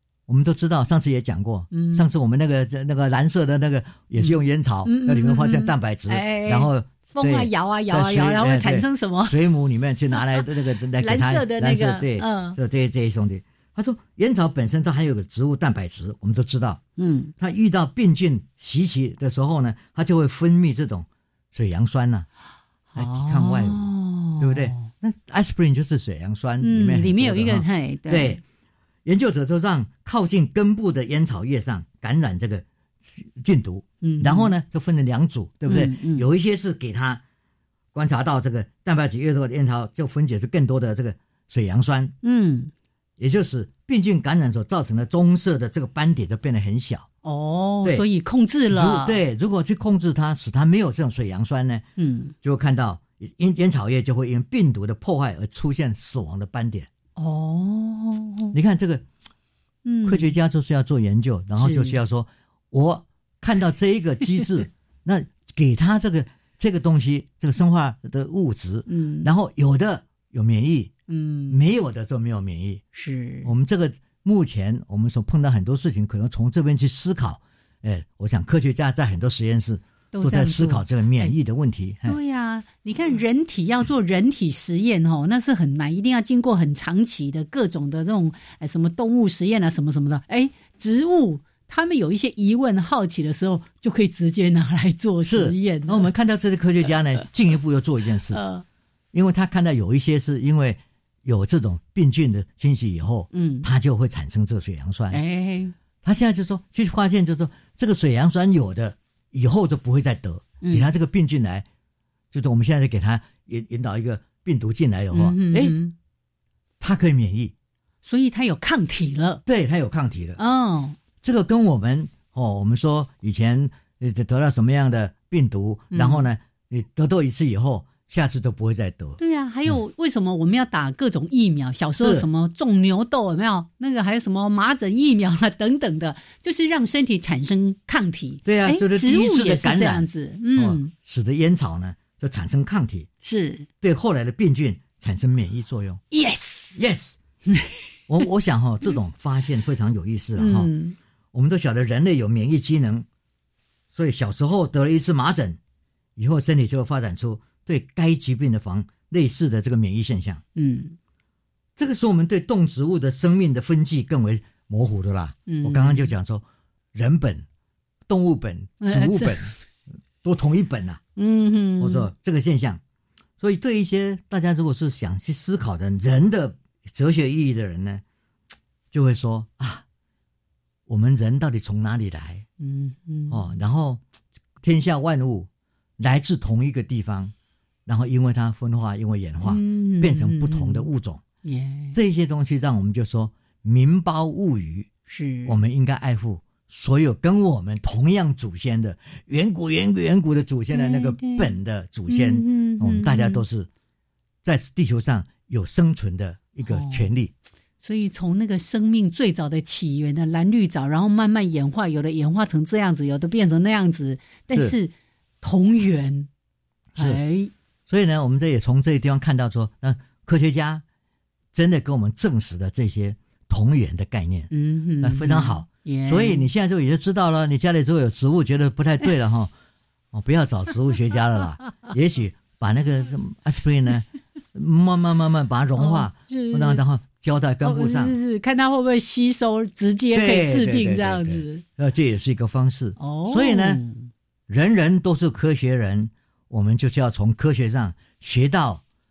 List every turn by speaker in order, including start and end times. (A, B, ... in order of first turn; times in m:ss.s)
0:00.3-0:16.8 A
0:01.7-0:02.1 B
0:04.2-0:09.4 B
0:10.2-0:10.5 B
0:11.0-0:12.6 B
0:17.0-0:17.3 B
0:17.4-0:22.3 A
0:22.9-0:24.9 B
0:23.0-0:28.4 A
0:26.6-0:28.4 B
0:29.0-0:37.2 A
0:34.0-0:34.5 B
0:35.7-0:36.3 B
0:37.9-0:42.1 A
0:42.2-0:42.7 B
0:43.2-0:47.1 A
0:47.2-0:49.2 B
0:48.7-0:51.9 A
0:52.0-0:52.3 B
0:52.4-0:56.9 A
0:57.2-0:58.6 B
0:58.5-0:59.0 A
0:59.8-1:00.4 B
1:00.0-1:10.9 A
1:01.6-1:02.0 B
1:08.9-1:09.3 B
1:11.1-1:11.6 B
1:11.5-1:12.8 A
1:12.9-1:13.5 B
1:13.4-1:22.2 A
1:20.1-1:21.3 B
1:22.0-1:36.1 B
1:35.2-1:38.4 A
1:38.3-1:38.6 B
1:39.1-1:45.2 A
1:43.3-1:43.7 B
1:45.1-1:45.7 B
1:46.0-1:51.7 A
1:50.6-1:50.9 B
1:52.3-1:55.8 A
1:55.1-1:55.9 B
1:56.8-1:57.5 A
1:58.0-1:59.4 B
1:59.5-2:00.4 A
2:00.4-2:01.0 B
2:01.2-2:09.8 A
2:05.9-2:06.3 B
2:09.2-2:20.9 B
2:12.0-2:12.3 A
2:18.4-2:23.1 A
2:23.2-2:23.7 B
2:23.8-2:26.0 A
2:26.1-2:26.8 B
2:26.8-2:27.2 A
2:27.5-2:27.7 B
2:28.1-2:30.7 A
2:30.4-2:31.0 B
2:31.3-2:33.1 A
2:33.9-2:35.6 A
2:36.2-2:40.4 A
2:40.6-2:41.0 B
2:41.8-2:47.5 A
2:45.5-2:46.1 B
2:48.1-2:49.5 A
2:48.8-2:49.5 B
2:50.2-2:51.0 A
2:51.2-2:52.1 B
2:51.8-2:52.8 A
2:53.4-2:58.0 A
2:58.9-2:59.8 A
3:00.9-3:02.4 A
3:02.6-3:03.5 B
3:03.3-3:04.0 A
3:04.6-3:05.5 A
3:06.0-3:07.3 A
3:07.9-3:11.2 A
3:09.4-3:10.9 B
3:11.4-3:12.0 B
3:11.9-3:14.9 A
3:15.1-3:15.6 B
3:15.5-3:23.7 A
3:20.7-3:21.5 B
3:22.1-3:23.4 B
3:24.4-3:27.3 A
3:26.7-3:27.1 B
3:27.8-3:36.3 B
3:34.5-3:34.8 A
3:37.0-3:37.2 A
3:37.0-3:37.5 B
3:37.9-3:40.8 A
3:41.5-3:44.5 A
3:44.5-3:46.5 B
3:45.0-3:49.5 A
3:50.1-3:58.2 A
3:55.8-3:56.8 B
3:57.6-4:01.6 B
4:00.1-4:03.8 A
4:03.0-4:04.1 B
4:04.5-4:08.8 A